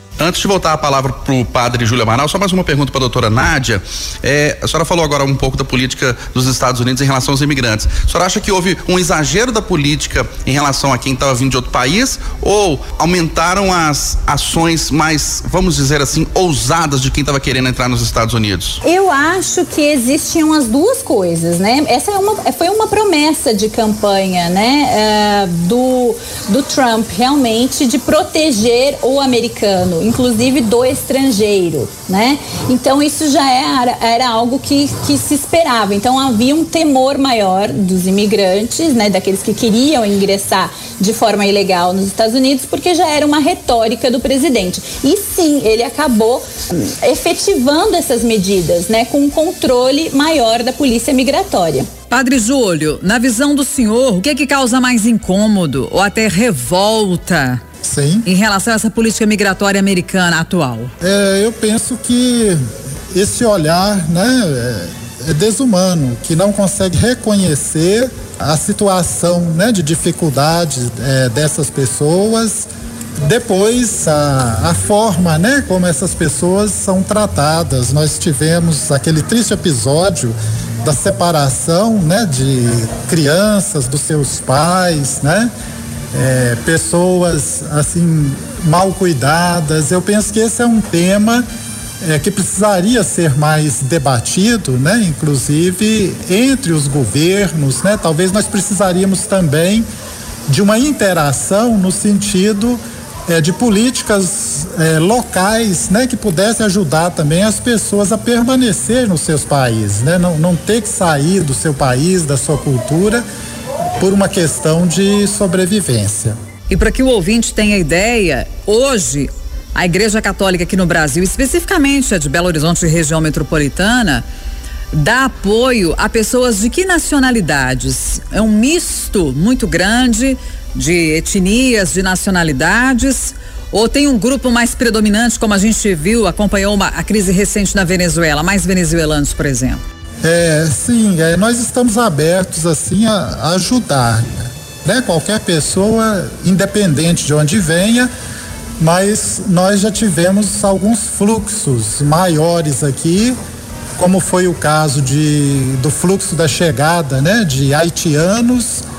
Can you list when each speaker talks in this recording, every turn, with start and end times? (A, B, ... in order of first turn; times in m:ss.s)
0:00.2-0:18.8 A
0:18.8-0:51.9 B
0:52.1-0:57.6 C
0:57.8-0:58.3 D
0:58.2-1:00.9 C
1:01.0-1:02.6 D
1:03.1-1:12.7 D
1:13.2-1:25.5 D
1:26.1-1:31.4 D
1:32.0-1:39.9 D
1:40.5-1:53.2 D
1:54.0-1:56.4 D
1:56.7-2:04.2 C
2:04.9-2:19.8 C
2:20.2-2:28.1 D
2:28.8-2:33.4 D
2:34.0-2:38.8 D